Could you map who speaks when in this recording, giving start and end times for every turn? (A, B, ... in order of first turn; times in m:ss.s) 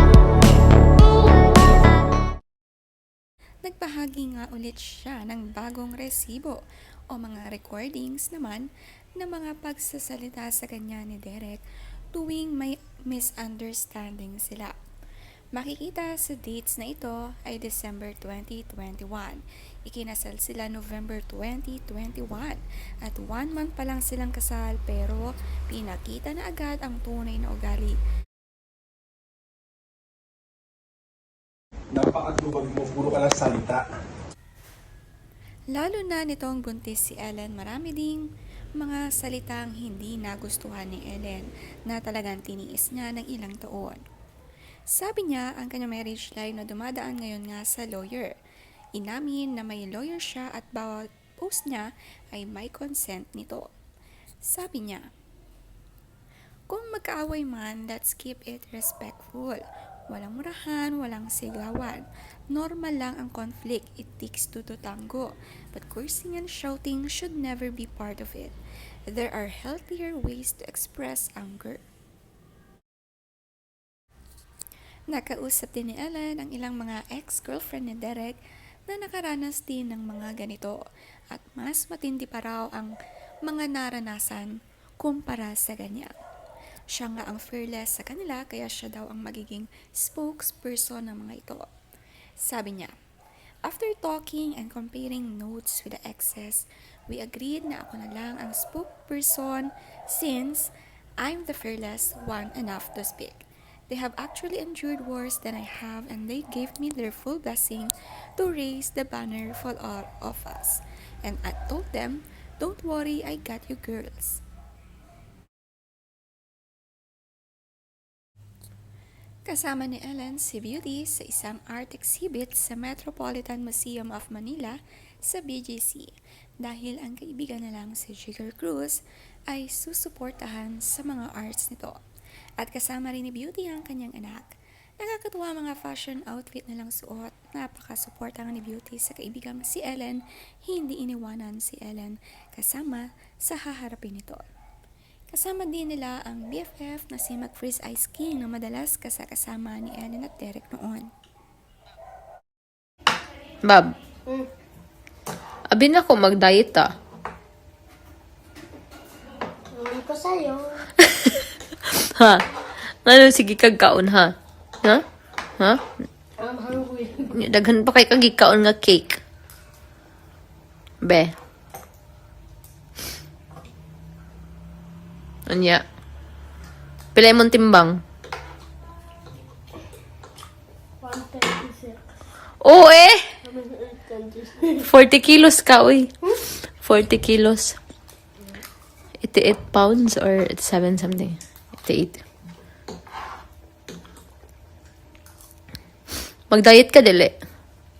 0:03.6-0:06.6 A
0:07.1-0:11.6 A
0:12.1-0:14.7 A
0:15.5-0:28.0 A
0:31.9-0:33.8 B
0:35.7-0:38.2 A
0:38.8-0:44.0 A
0:44.9-0:48.3 A
0:49.0-0:53.6 A
0:54.4-0:55.0 A
0:56.7-1:08.5 A
1:09.1-1:11.8 A
1:15.1-1:18.4 A
1:18.9-1:20.8 A
1:21.3-1:22.9 A
1:23.5-1:26.1 A
1:27.0-1:31.6 A
1:32.4-1:32.9 A
1:33.6-1:54.4 A
1:59.4-2:12.0 A
2:12.6-2:24.4 A
2:25.3-2:31.1 A
2:33.6-2:33.9 C
2:35.7-2:36.9 C
2:39.7-2:40.8 D
2:42.1-2:42.4 C
2:43.0-2:45.0 C
2:46.4-2:47.3 D
2:47.3-2:49.2 C
2:51.0-2:51.3 C
2:55.5-2:55.8 C
2:57.1-2:58.0 C
3:01.0-3:02.0 D
3:02.6-3:03.2 C
3:03.4-3:04.8 D
3:04.8-3:06.1 C
3:06.8-3:07.8 C
3:09.2-3:12.2 C
3:16.5-3:17.3 C